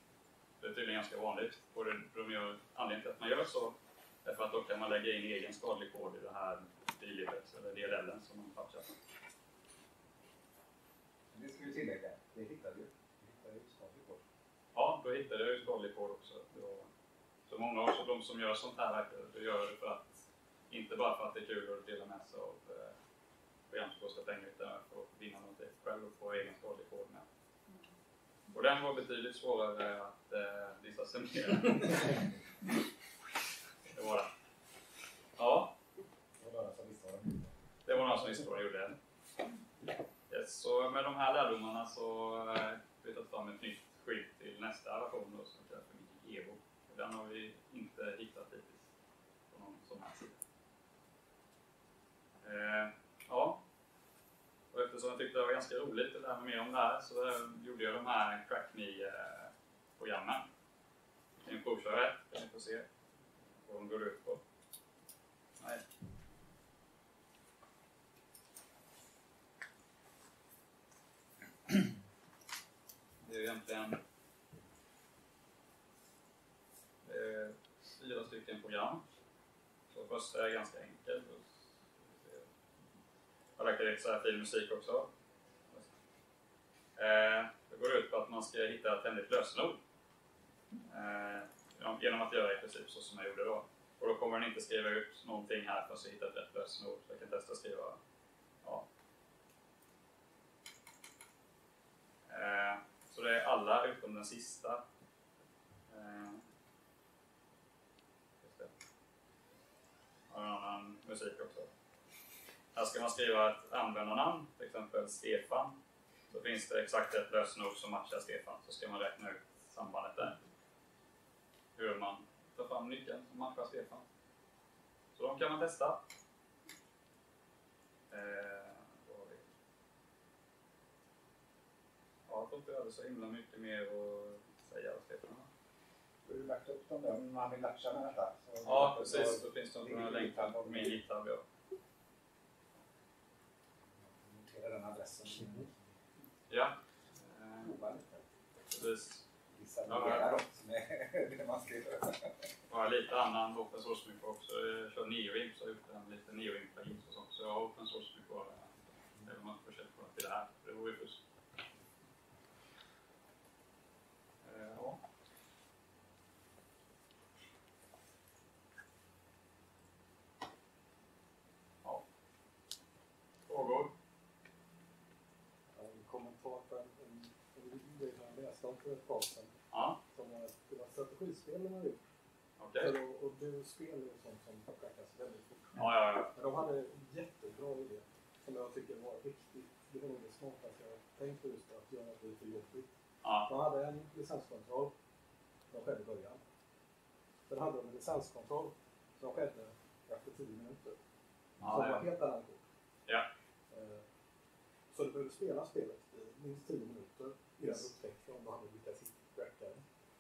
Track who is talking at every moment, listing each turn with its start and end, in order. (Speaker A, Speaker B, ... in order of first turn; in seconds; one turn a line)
Speaker A: 0.6-8.9
Speaker B: 11.3-14.2
Speaker A: 14.8-16.9
Speaker A: 17.5-22.9
Speaker A: 23.7-27.2
Speaker A: 28.5-32.2
Speaker A: 33.9-34.3
Speaker A: 35.4-35.7
Speaker B: 36.4-37.5
Speaker A: 37.9-39.0
Speaker A: 40.3-48.9
Speaker A: 49.5-50.4
Speaker A: 52.4-53.6
Speaker A: 54.7-60.5
Speaker A: 61.4-62.9
Speaker A: 63.6-64.4
Speaker A: 73.2-74.0
Speaker A: 77.0-79.0
Speaker A: 79.9-82.5
Speaker A: 83.6-85.1
Speaker A: 87.0-89.8
Speaker A: 90.8-98.0
Speaker A: 102.3-104.8
Speaker A: 105.9-106.4
Speaker A: 108.4-108.7
Speaker A: 110.3-111.7
Speaker A: 112.7-115.8
Speaker A: 116.3-120.4
Speaker A: 121.8-124.0
Speaker A: 125.2-126.0
Speaker A: 128.1-129.4
Speaker A: 132.3-135.5
Speaker B: 136.2-141.0
Speaker A: 138.6-141.4
Speaker B: 144.0-145.8
Speaker A: 146.5-147.7
Speaker B: 147.6-148.2
Speaker A: 148.7-149.2
Speaker B: 149.5-152.3
Speaker A: 149.9-150.3
Speaker A: 152.7-161.2
Speaker A: 164.4-165.0
Speaker A: 173.5-173.9
Speaker C: 175.7-179.6
Speaker A: 179.7-180.0
Speaker C: 180.1-182.0
Speaker A: 182.6-182.9
Speaker C: 182.8-192.9
Speaker A: 185.7-186.3
Speaker A: 193.2-193.5
Speaker C: 193.5-194.9
Speaker C: 195.7-196.4
Speaker C: 197.5-201.0
Speaker A: 201.6-202.0
Speaker C: 201.6-202.6
Speaker C: 203.7-204.1
Speaker C: 204.9-209.8